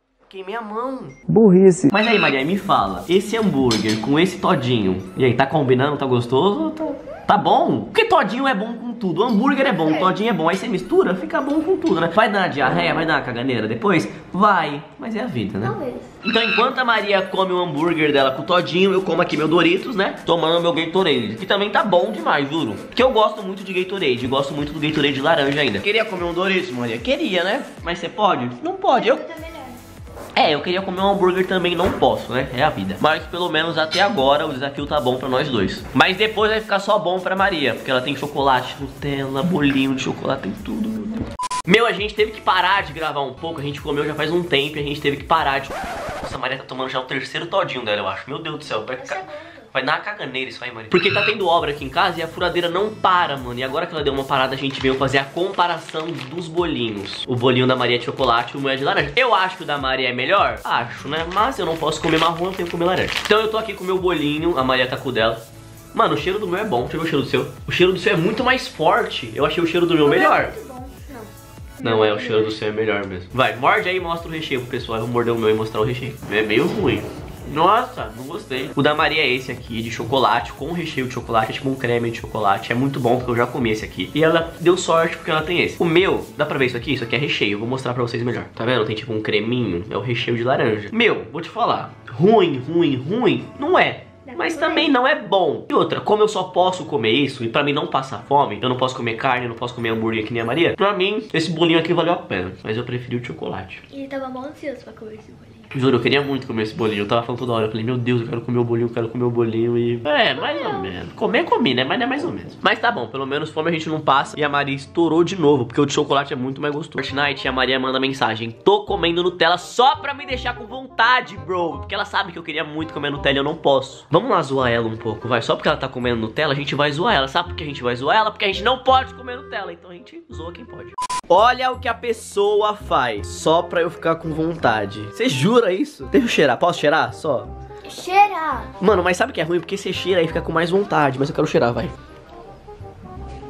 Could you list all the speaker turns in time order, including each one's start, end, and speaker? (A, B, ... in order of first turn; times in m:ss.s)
0:00.3-0:29.2 A
0:09.6-0:10.2 B
0:15.6-0:16.1 B
0:28.9-0:29.8 B
0:30.4-1:05.4 A
0:49.0-0:49.7 B
1:05.9-1:10.5 A
1:10.0-1:12.6 B
1:11.8-1:43.8 A
1:34.3-1:34.9 B
1:43.9-1:45.7 B
1:45.7-2:17.5 A
1:50.3-1:50.9 B
2:17.9-2:18.7 B
2:18.8-2:21.9 A